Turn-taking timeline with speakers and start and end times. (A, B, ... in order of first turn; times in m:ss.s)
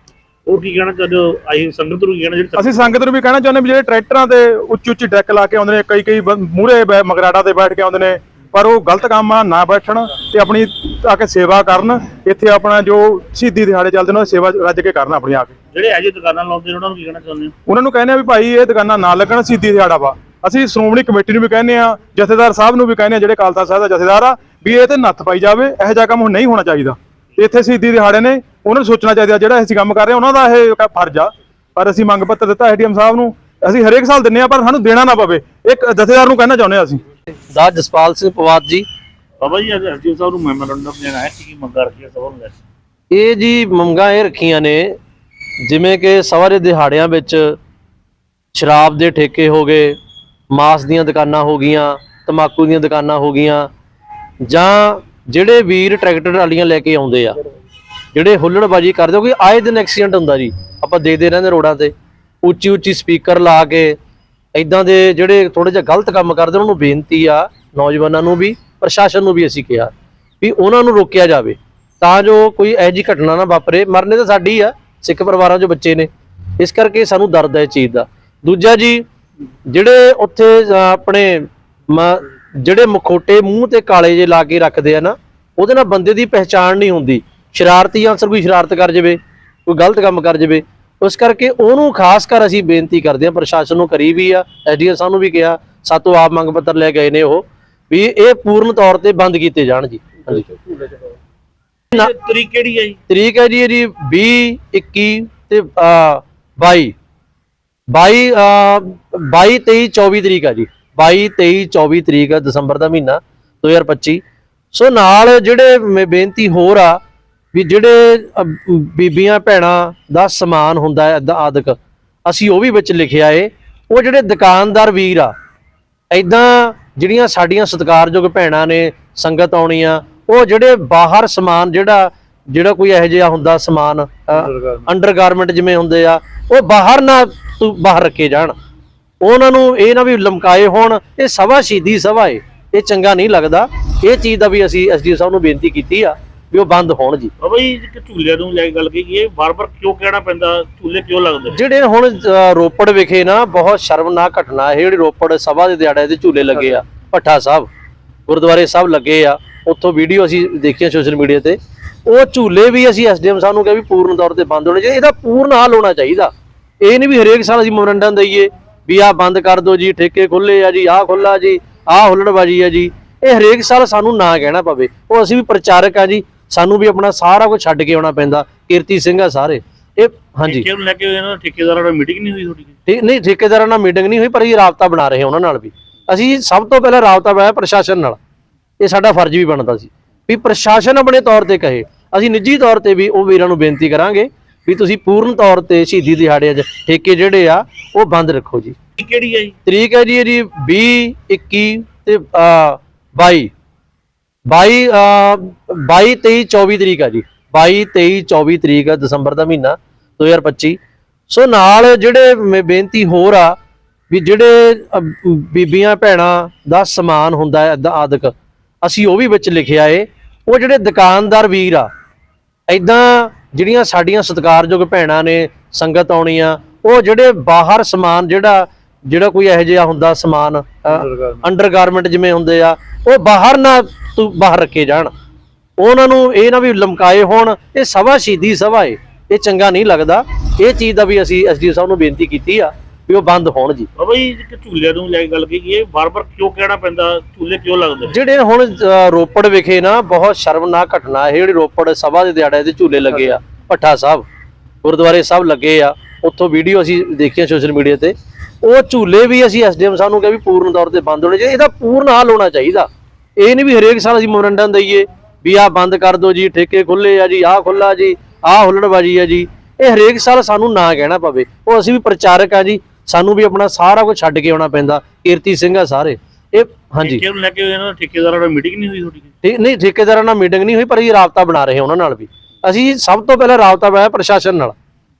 0:00.4-0:03.0 A
0:02.6-0:15.6 B
0:15.7-0:17.5 A
0:17.7-0:37.0 B
0:37.5-0:38.8 C
0:39.4-0:42.6 A
0:43.1-0:45.0 C
0:45.6-0:47.6 C
0:48.5-0:50.0 C
0:50.5-0:53.7 C
0:54.4-0:57.4 C
0:58.1-1:04.0 C
1:04.6-1:19.1 C
1:19.7-1:40.4 C
1:40.7-1:41.0 A
1:41.9-1:43.0 A
1:43.1-1:46.9 C
1:47.9-1:57.0 C
1:57.5-2:05.3 C
2:06.1-2:18.5 C
2:14.3-2:14.8 A
2:19.2-2:27.3 C
2:27.4-2:31.6 A
2:31.5-2:37.7 C
2:38.3-3:00.7 C
3:00.5-3:02.7 A
3:02.9-3:08.2 C
3:08.8-3:18.8 C
3:19.0-3:19.6 A
3:19.6-3:23.5 C
3:24.5-3:33.6 C
3:34.1-3:41.9 C
3:42.7-3:55.1 C
3:50.9-3:51.4 A
3:55.8-4:03.9 C
4:04.0-4:08.1 A
4:08.0-4:14.2 C
4:14.8-4:37.2 C
4:37.0-4:39.3 A
4:39.4-4:44.8 C